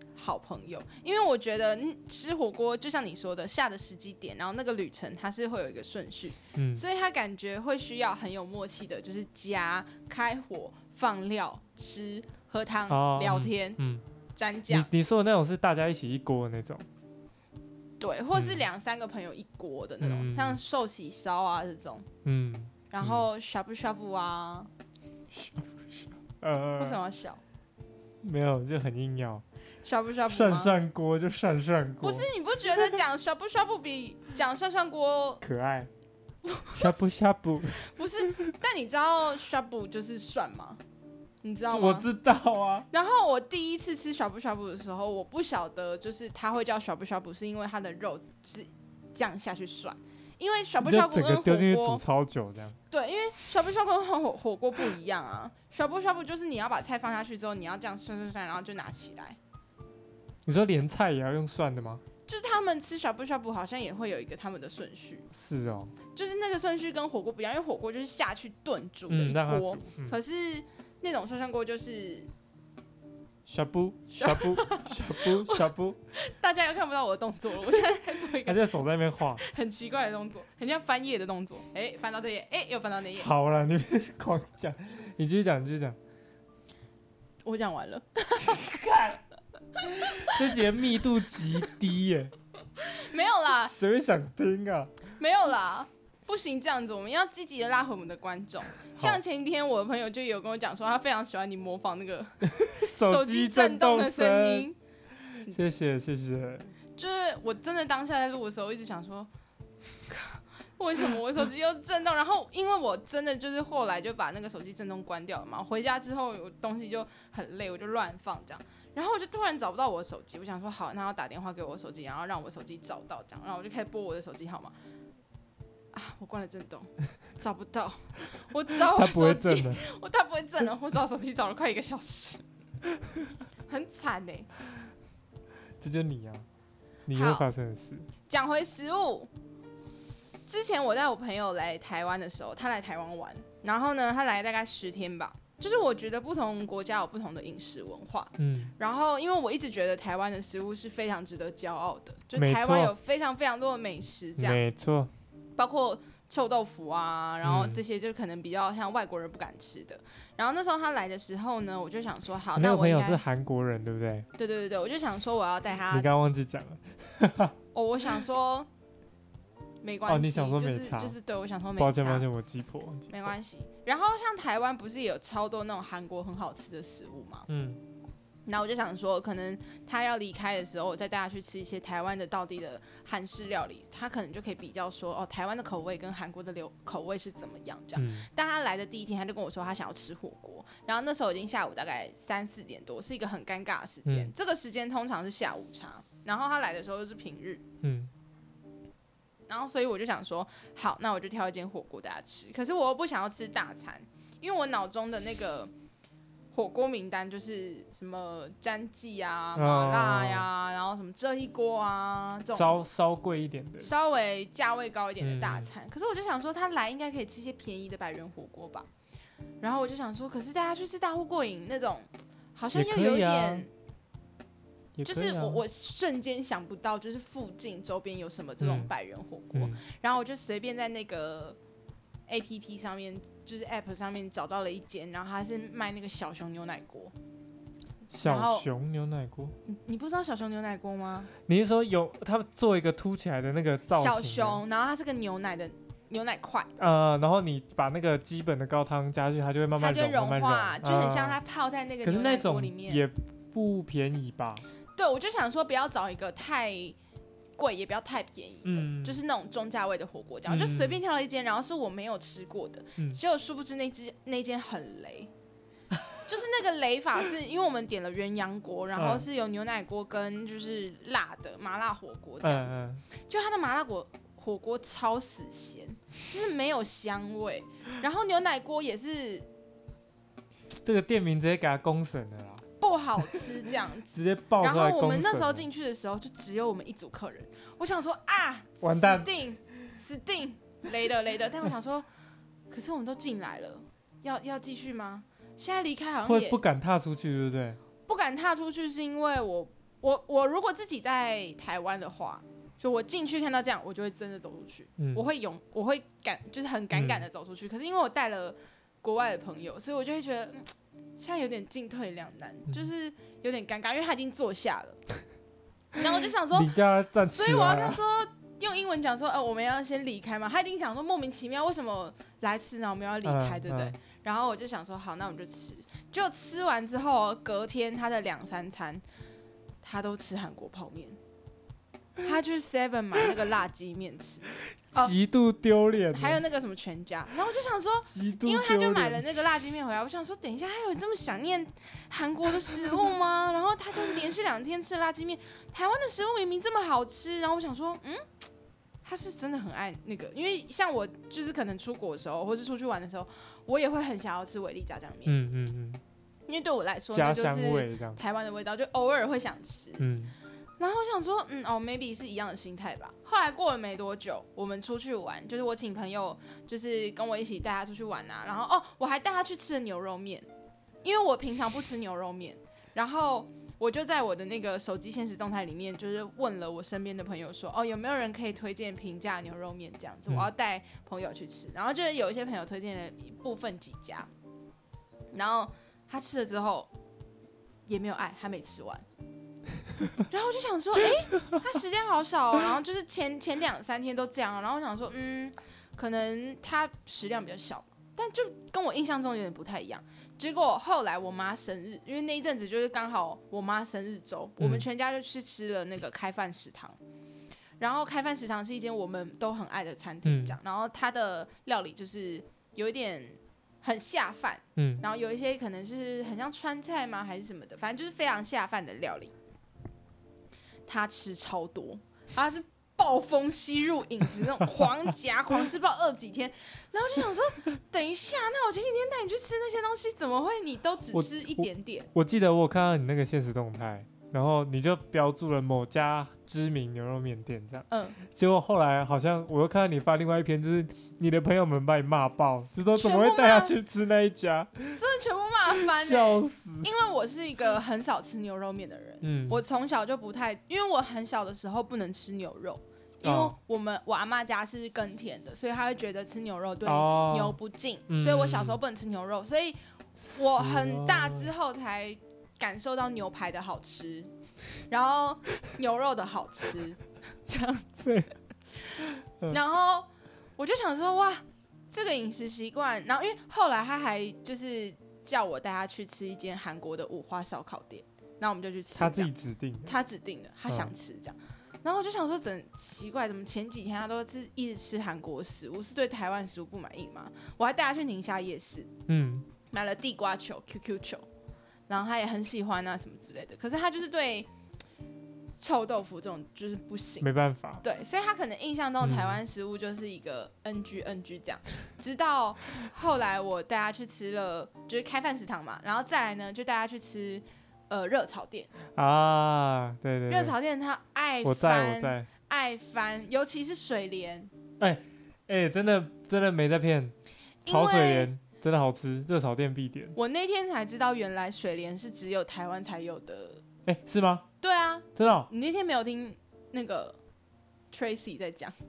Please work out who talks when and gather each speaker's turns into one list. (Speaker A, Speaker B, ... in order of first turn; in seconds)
Speaker A: 0.1-13.8, 14.3-14.9, 18.0-22.1, 22.9-24.7, 26.8-27.4, 29.8-30.7, 32.0-35.4, 36.4-40.8, 41.4-42.1, 42.9-52.0, 52.9-59.4, 62.3-65.3, 66.1-72.3, 74.2-78.7, 79.4-83.3, 87.4-88.8, 89.7-90.5, 92.8-93.7, 95.2-104.8, 107.0-109.3, 110.1-124.7, 125.9-132.4, 133.7-134.5, 137.1-137.5, 138.3-139.3, 140.5-154.6, 155.6-163.2, 164.3-166.1, 167.7-168.7, 169.8-172.2, 173.1-177.5, 178.5-197.6, 199.5-205.7, 206.5-212.8, 213.8-218.9, 219.6-223.7, 225.0-231.6, 232.3-237.1, 238.2-238.7, 239.6-241.3, 243.9-246.7, 249.8-253.0, 254.9-256.9, 257.6-265.3, 266.2-279.4, 282.8-292.1, 292.7-296.6, 298.1-315.0, 315.9-329.0, 329.8-331.2, 332.2-335.1, 336.1-348.2, 349.0-355.4, 356.5-360.1, 360.8-370.5, 371.0-384.3, 385.3-386.9, 387.9-389.0, 390.3-407.0, 407.8-419.3, 420.9-432.1, 437.9-438.2, 442.9-443.8, 445.0-459.8, 460.3-464.3, 464.9-468.0, 468.9-479.3, 479.8-488.9, 489.7-491.2, 491.9-494.5, 495.6-497.3, 497.8-508.7, 510.3-514.5, 517.6-518.3, 520.1-523.6, 524.6-527.2, 527.9-528.7
Speaker B: 6.5-6.8, 12.9-14.0, 14.7-16.8, 18.3-18.6, 20.0-20.6, 22.2-23.2, 25.3-27.0, 28.2-29.4, 30.3-32.3, 35.4-35.9, 36.7-37.9, 41.7-42.9, 50.8-52.8, 60.5-62.0, 65.3-65.9, 69.1-70.2, 73.5-76.0, 78.4-79.4, 83.2-86.0, 88.4-89.2, 89.8-92.3, 93.5-94.9, 102.4-104.7, 105.5-106.7, 128.8-129.8, 135.8-136.5, 137.1-138.1, 148.4-148.7, 152.3-152.9, 154.4-155.1, 157.4-157.8, 162.6-164.3, 165.9-167.5, 170.1-171.2, 171.8-173.3, 177.5-177.8, 187.9-188.3, 194.1-194.3, 197.8-198.1, 209.6-210.5, 212.5-213.9, 215.2-215.7, 222.7-223.7, 224.9-225.6, 228.6-228.9, 229.5-229.8, 238.1-239.5, 241.4-244.6, 246.8-251.4, 252.0-254.6, 258.6-259.2, 260.5-261.0, 269.0-269.2, 272.4-273.0, 280.8-282.6, 284.1-285.7, 288.8-289.3, 296.2-297.8, 305.0-305.2, 306.9-307.2, 316.5-318.0, 323.2-323.9, 334.9-336.4, 338.1-339.2, 355.2-356.0, 357.1-358.2, 360.0-360.4, 404.6-404.9, 410.2-410.6, 414.8-415.0, 431.1-445.0, 445.7-446.9, 449.2-449.6, 453.2-453.6, 456.8-457.6, 458.1-458.8, 460.2-461.5, 468.0-468.3, 469.0-469.6, 478.9-479.9, 489.1-489.5, 497.2-497.8, 499.0-499.4, 508.9-510.6, 511.4-512.3, 514.8-517.1, 517.6-520.1, 523.9-524.5, 525.1-525.5